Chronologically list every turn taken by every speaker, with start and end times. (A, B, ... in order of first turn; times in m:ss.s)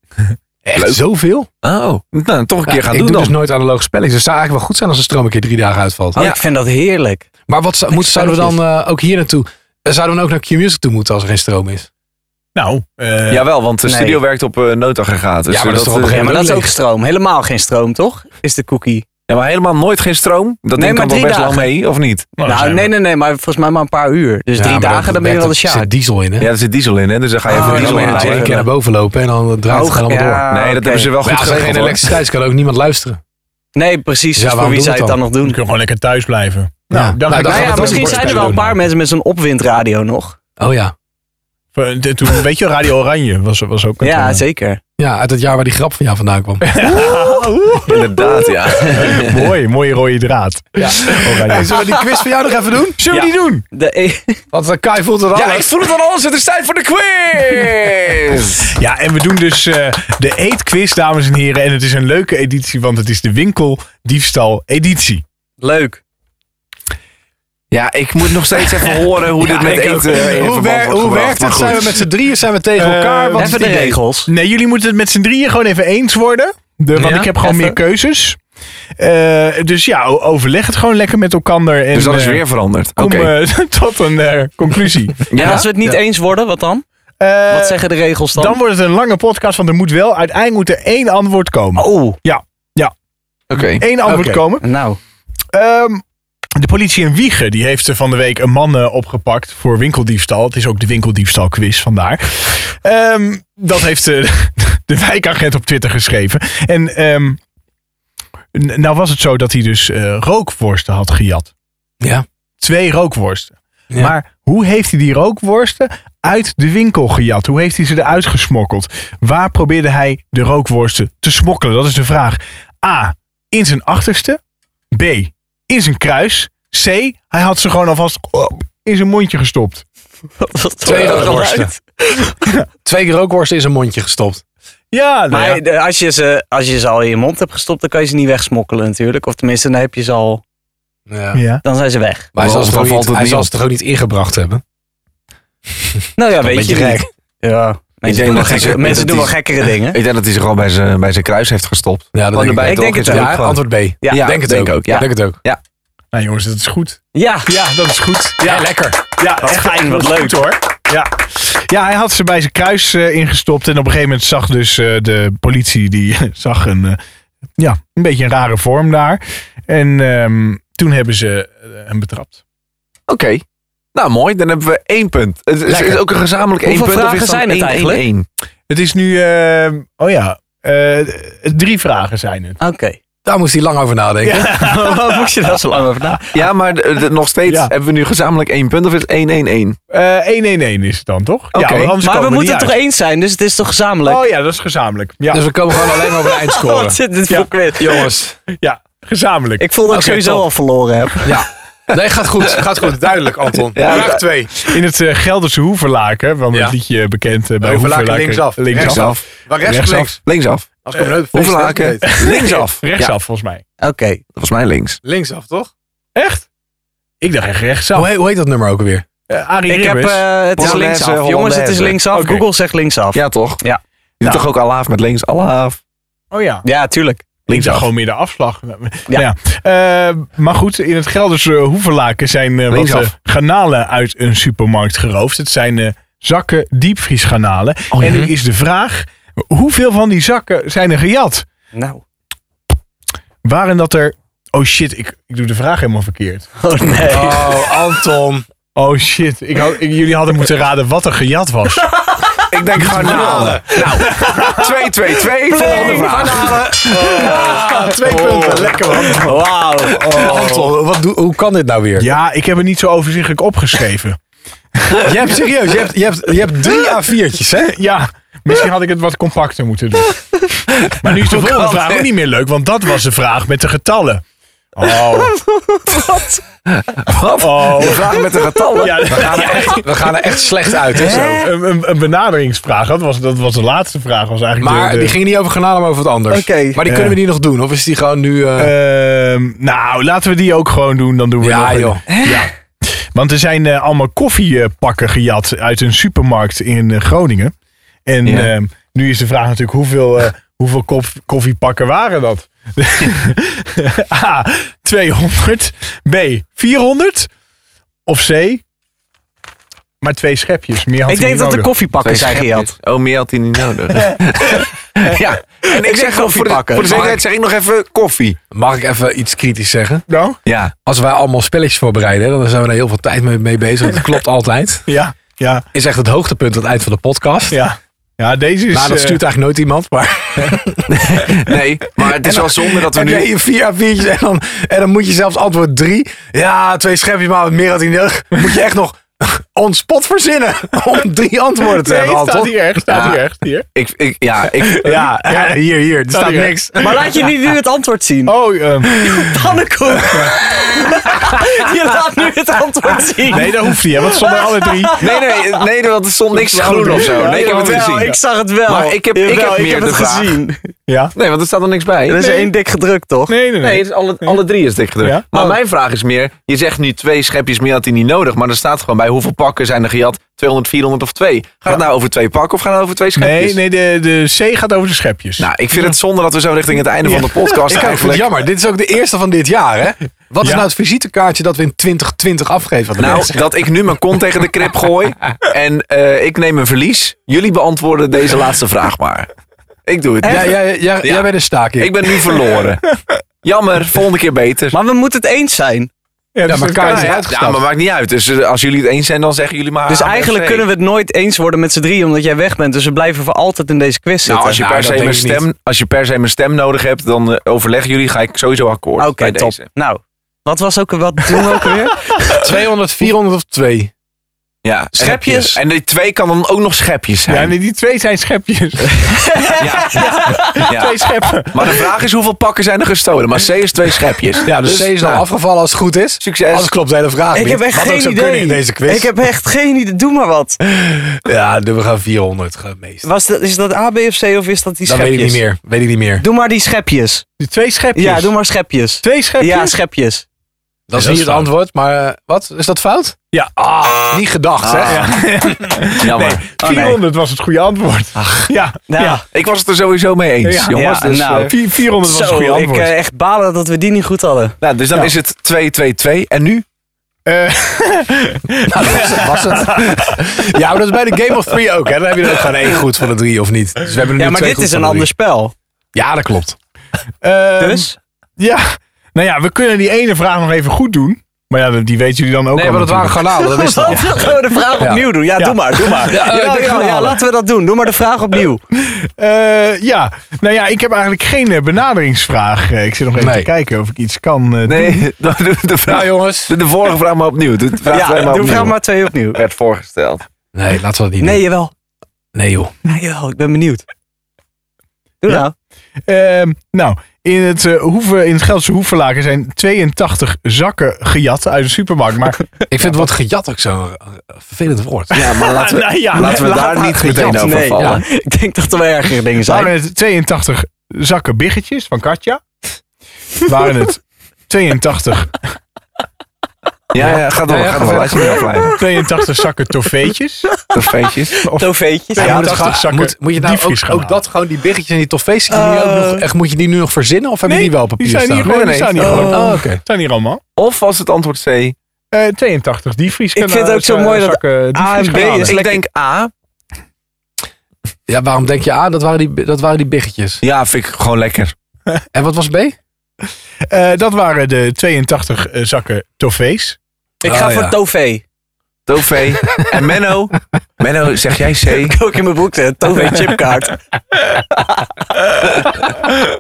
0:00.6-0:01.5 A
0:00.8-0:01.0 B
0:01.6-0:03.4 B
0:02.7-0:06.2 A
0:06.2-0:07.3 C
0:06.2-0:06.4 B
0:07.5-0:11.9 A
0:07.9-0:08.6 C
0:12.6-0:13.4 D
0:13.3-0:16.3 B
0:13.8-0:14.2 C
0:15.5-0:16.7 A
0:16.1-0:19.1 C
0:19.3-0:22.3 B
0:20.8-0:21.7 C
0:22.4-0:22.9 D
0:22.4-0:25.9 C
0:24.5-0:26.5 A
0:26.4-0:28.5 B
0:27.5-0:28.7 C
0:27.5-0:30.5 A
0:29.7-0:31.1 C
0:30.5-0:32.2 B
0:31.2-0:33.2 A
0:33.8-0:35.6 C
0:34.4-0:35.2 A
0:35.4-0:38.6 D
0:36.9-0:38.7 A
0:37.3-0:40.4 C
0:40.6-0:40.9 A
0:41.7-0:44.4 D
0:44.0-0:44.8 C
0:45.0-0:46.8 A
0:46.7-0:52.0 D
0:46.8-0:47.6 C
0:47.8-0:49.6 B
0:50.8-0:53.0 A
0:53.0-0:53.6 D
0:53.7-0:54.4 C
0:54.5-0:55.7 A
0:55.3-0:58.7 B
0:58.7-1:05.2 D
1:05.6-1:06.0 C
1:07.7-1:12.0 B
1:09.4-1:14.0 A
1:09.7-1:10.1 C
1:12.8-1:13.6 D
1:13.4-1:14.3 C
1:14.3-1:18.4 D
1:17.0-1:17.3 A
1:17.4-1:17.8 C
1:19.0-1:22.4 D
1:21.9-1:23.3 B
1:23.0-1:25.2 D
1:25.3-1:25.7 B
1:25.3-1:26.8 C
1:27.2-1:27.8 D
1:27.5-1:28.6 C
1:28.4-1:32.9 D
1:31.8-1:32.2 C
1:33.5-1:33.9 B
1:33.8-1:34.6 D
1:34.0-1:34.4 A
1:34.6-1:35.0 C
1:35.5-1:36.0 D
1:36.6-1:47.4 D
1:48.5-1:51.5 D
1:52.6-2:04.4 D
2:04.9-2:09.8 D
2:10.4-2:12.3 C
2:10.8-2:11.7 A
2:12.8-2:14.4 A
2:14.9-2:15.6 D
2:15.3-2:20.4 C
2:21.1-2:21.4 A
2:21.3-2:21.6 D
2:21.6-2:22.3 C
2:22.4-2:24.6 A
2:22.4-2:23.5 B
2:26.2-2:30.0 C
2:26.4-2:27.0 A
2:28.1-2:35.6 B
2:32.1-2:35.4 A
2:32.6-2:33.4 C
2:36.1-2:47.0 D
2:37.2-2:37.5 C
2:38.4-2:39.0 A
2:39.4-2:40.5 C
2:47.6-2:52.4 D
2:53.1-2:53.4 B
2:54.0-2:58.2 B
2:56.6-2:58.0 C
2:58.7-3:02.6 D
3:02.6-3:03.0 C
3:03.2-3:04.5 A
3:04.2-3:05.8 D
3:04.5-3:06.4 C
3:06.3-3:09.8 B
3:07.5-3:07.7 D
3:09.9-3:12.7 D
3:11.5-3:12.0 B
3:12.0-3:14.2 C
3:14.0-3:15.4 D
3:15.3-3:17.0 A
3:16.2-3:18.1 C
3:17.8-3:18.4 A
3:18.6-3:19.7 D
3:19.6-3:21.3 C
3:19.9-3:20.4 A
3:21.2-3:24.5 A
3:23.8-3:24.2 B
3:24.6-3:29.1 D
3:27.6-3:30.2 A
3:28.7-3:30.7 B
3:29.6-3:30.1 D
3:30.8-3:32.1 A
3:31.3-3:33.1 B
3:32.0-3:33.6 D
3:33.8-3:34.2 C
3:34.4-3:35.0 B
3:35.0-3:35.7 A
3:36.2-3:36.4 D
3:37.2-3:38.1 D
3:37.9-3:39.0 A
3:39.3-3:40.2 D
3:39.7-3:43.8 C
3:40.6-3:42.0 B
3:42.1-3:42.4 D
3:43.1-3:43.6 B
3:44.2-3:45.8 B
3:46.3-3:46.6 D
3:46.6-3:47.2 C
3:47.5-3:47.9 B
3:47.5-4:01.4 D
3:52.7-3:53.1 B
3:57.9-3:58.3 B
3:58.0-3:58.3 A
4:01.7-4:02.0 C
4:03.4-4:06.5 D
4:06.6-4:07.8 C
4:07.1-4:08.4 A
4:08.8-4:11.9 D
4:12.5-4:16.8 B
4:12.8-4:14.8 D
4:12.8-4:13.8 A
4:15.5-4:20.5 C
4:15.6-4:19.3 A
4:17.1-4:20.6 D
4:20.0-4:22.1 A
4:22.0-4:24.2 D
4:25.0-4:27.8 A
4:27.7-4:30.4 D
4:30.8-4:32.1 B
4:31.0-4:34.2 D
4:34.8-4:35.3 D
4:35.1-4:36.4 C
4:36.7-4:39.4 B
4:37.4-4:38.2 D
4:38.8-4:39.9 D
4:39.1-4:41.5 A
4:41.0-4:41.4 C
4:41.1-4:45.2 D
4:44.6-4:48.7 A
4:46.3-4:46.8 C
4:46.9-4:47.2 D
4:48.6-4:52.5 D
4:51.4-4:52.0 A
4:52.1-4:52.4 C
4:53.1-4:57.5 D
4:58.1-5:07.3 D
4:58.2-4:58.5 B
5:08.1-5:08.6 D
5:10.0-5:11.7 D
5:11.1-5:12.7 C
5:12.0-5:18.4 B
5:15.6-5:17.0 C
5:16.9-5:17.2 A
5:18.5-5:20.0 A
5:20.1-5:20.4 D
5:20.5-5:20.7 B
5:20.8-5:24.9 A
5:24.9-5:25.7 D
5:25.7-5:27.6 A
5:27.5-5:29.2 D
5:28.7-5:31.4 A
5:31.2-5:33.3 B
5:32.1-5:42.8 A
5:41.6-5:43.7 D
5:42.9-5:43.2 B
5:43.8-5:45.0 B
5:44.6-5:47.0 A
5:44.7-5:45.6 D
5:46.1-5:47.0 D
5:46.8-5:48.3 C
5:48.3-5:49.4 D
5:49.0-5:55.6 C
5:50.1-5:50.4 D
5:53.3-5:55.1 D
5:55.0-6:00.4 B
5:56.6-5:58.2 D
5:56.7-6:00.7 C
6:00.9-6:01.1 D
6:01.2-6:02.4 B
6:02.1-6:03.4 C
6:03.3-6:04.4 D
6:03.6-6:13.6 B
6:13.2-6:15.9 D
6:15.4-6:18.3 B
6:17.1-6:17.8 D
6:17.7-6:23.4 A
6:20.4-6:20.7 D
6:23.0-6:29.3 B
6:29.9-6:34.8 B
6:30.2-6:30.5 C
6:30.2-6:32.0 A
6:34.7-6:35.9 C
6:36.4-6:37.2 D
6:36.4-6:37.7 A
6:36.8-6:40.7 B
6:39.9-6:44.6 C
6:44.3-6:49.6 B
6:44.4-6:45.5 A
6:49.0-6:52.1 C
6:52.4-6:53.9 A
6:54.6-6:57.6 B
6:55.0-6:55.6 C
6:55.0-6:55.6 A
6:57.3-7:01.8 D
6:59.0-7:00.6 C
6:59.6-7:05.2 B
7:04.4-7:09.1 A
7:06.2-7:06.7 B
7:07.3-7:10.6 C
7:10.7-7:13.1 A
7:13.0-7:15.4 C
7:14.9-7:16.2 A
7:16.2-7:17.3 C
7:17.4-7:18.3 D
7:18.0-7:20.2 C
7:19.0-7:19.8 D
7:20.9-7:25.2 A
7:21.0-7:21.5 D
7:24.6-7:25.2 B
7:24.8-7:29.2 D
7:26.0-7:26.4 B
7:26.6-7:27.0 C
7:28.2-7:28.5 B
7:28.9-7:29.2 C
7:29.3-7:31.5 B
7:30.4-7:30.8 D
7:30.7-7:34.6 C
7:31.4-7:32.9 D
7:34.6-7:36.6 B
7:37.3-7:40.1 D
7:38.7-7:45.1 A
7:44.2-7:45.5 C
7:46.0-7:46.6 A
7:47.2-7:53.3 D
7:47.6-7:47.9 C
7:52.5-7:55.0 A
7:53.4-7:58.6 C
7:55.4-7:56.2 D
7:56.0-7:57.2 A
7:58.8-8:05.0 D
8:03.2-8:03.5 A
8:04.7-8:08.8 B
8:05.9-8:06.5 A
8:07.9-8:09.4 C
8:09.3-8:10.2 B
8:10.5-8:11.4 A
8:11.2-8:11.7 C
8:12.3-8:12.7 A
8:12.8-8:13.8 C
8:15.2-8:15.5 C
8:16.1-8:23.1 D
8:22.7-8:25.1 A
8:25.1-8:27.5 D
8:25.1-8:28.0 B
8:26.2-8:29.7 C
8:27.5-8:28.0 A
8:29.5-8:32.4 D
8:33.4-8:35.4 D
8:36.9-8:38.8 B
8:37.5-8:38.7 A
8:38.8-8:40.5 D
8:40.7-8:41.4 B
8:41.4-8:42.6 C
8:41.4-8:44.2 D
8:42.2-8:49.8 A
8:45.5-8:46.2 C
8:47.5-8:50.4 D
8:48.4-8:49.2 B
8:49.0-8:49.6 C
8:50.6-8:51.8 B
8:52.1-8:55.6 D
8:53.4-8:55.8 C
8:55.1-8:56.3 B
8:58.1-9:00.4 A
9:00.4-9:01.5 B
9:02.1-9:02.8 A
9:03.7-9:06.8 D
9:07.2-9:08.2 C
9:07.2-9:07.8 A
9:08.9-9:12.0 B
9:11.7-9:13.8 C
9:14.6-9:14.8 C